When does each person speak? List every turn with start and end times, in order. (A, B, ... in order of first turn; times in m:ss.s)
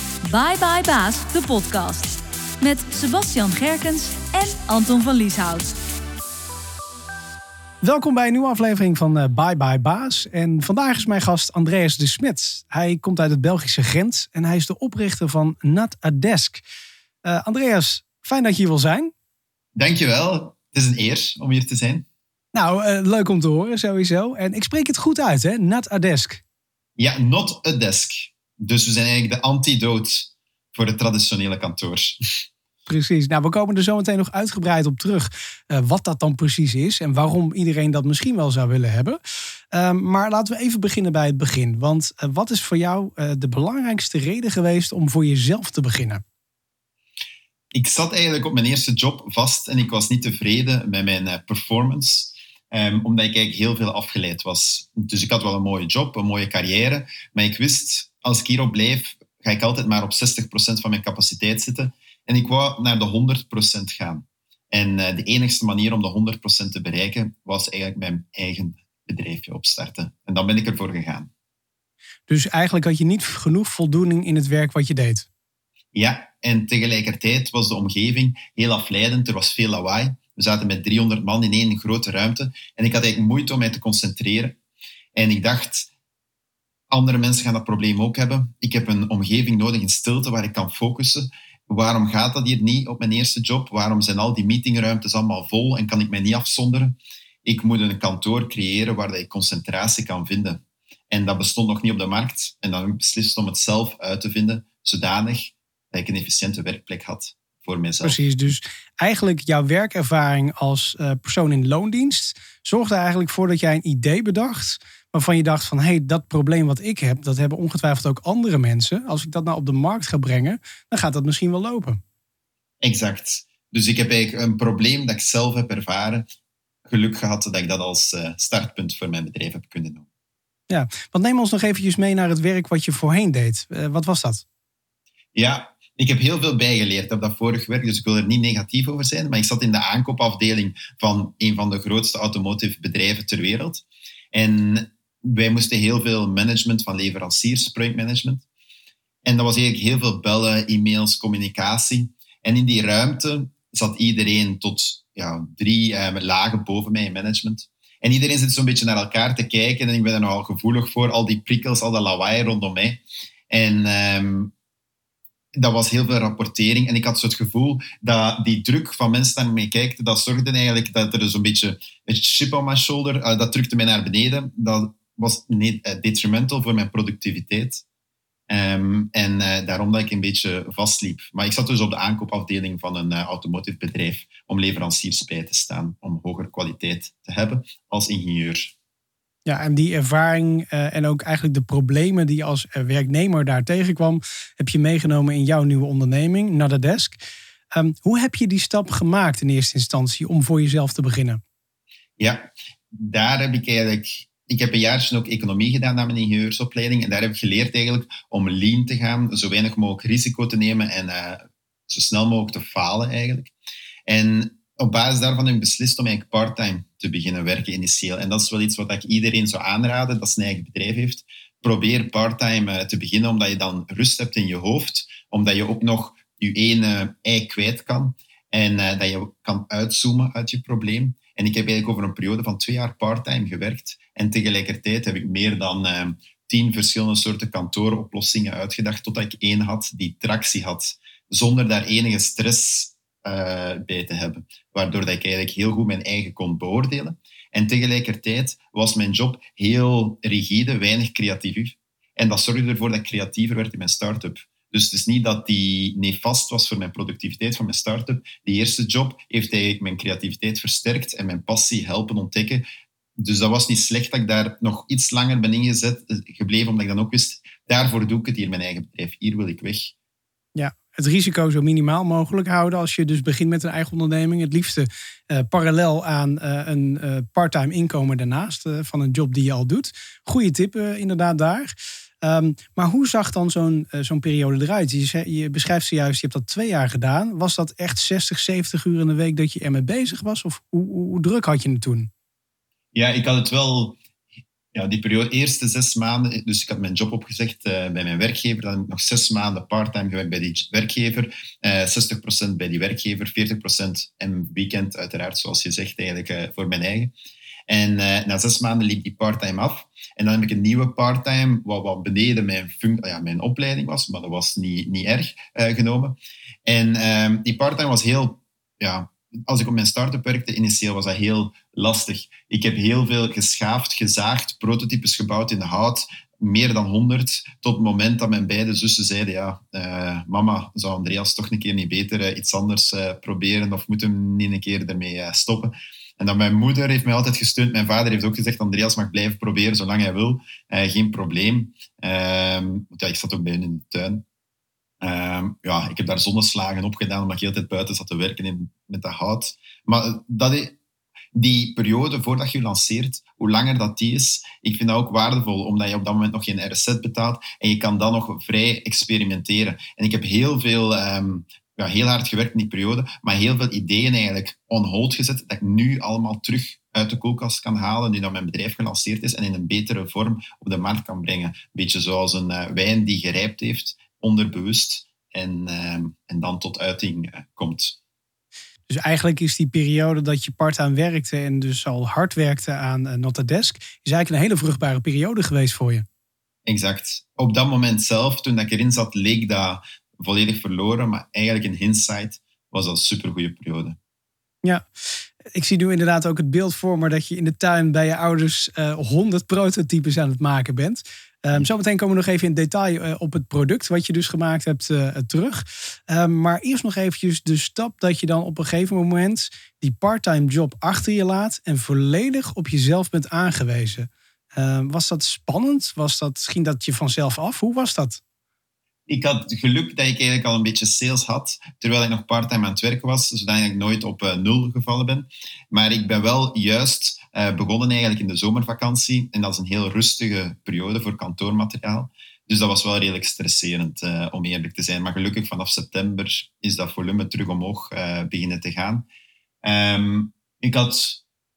0:00.2-0:05.8 A
0:07.8-0:16.6 B
0:17.2-0:19.1 B
0:19.8-0:22.0 C
0:22.5-0:26.4 B
0:27.0-0:32.4 C
0:32.9-0:39.2 B
0:39.7-0:46.2 B
0:47.7-1:11.3 C
1:12.3-1:15.3 B
1:15.9-1:24.6 C
1:25.2-1:25.9 C
1:26.9-1:48.2 C
1:48.0-2:02.0 B
2:02.8-2:06.3 C
2:06.9-2:10.1 C
2:10.7-2:14.4 B
2:15.4-2:28.4 C
2:29.2-2:44.5 C
2:45.6-2:57.8 C
2:58.5-3:08.7 C
3:09.5-3:17.2 B
3:17.8-3:21.4 B
3:22.2-3:33.5 C
3:34.1-4:22.6 C
4:23.2-4:29.9 C
4:30.6-4:52.1 B
4:52.9-4:54.0 C
4:54.7-5:07.1 C
5:07.7-5:44.2 C
5:45.0-5:50.8 C
5:51.3-6:18.0 C
6:18.9-6:26.0 B
6:26.7-6:34.0 C
6:35.5-6:58.2 B
6:59.1-7:19.1 C
7:19.6-7:21.2 C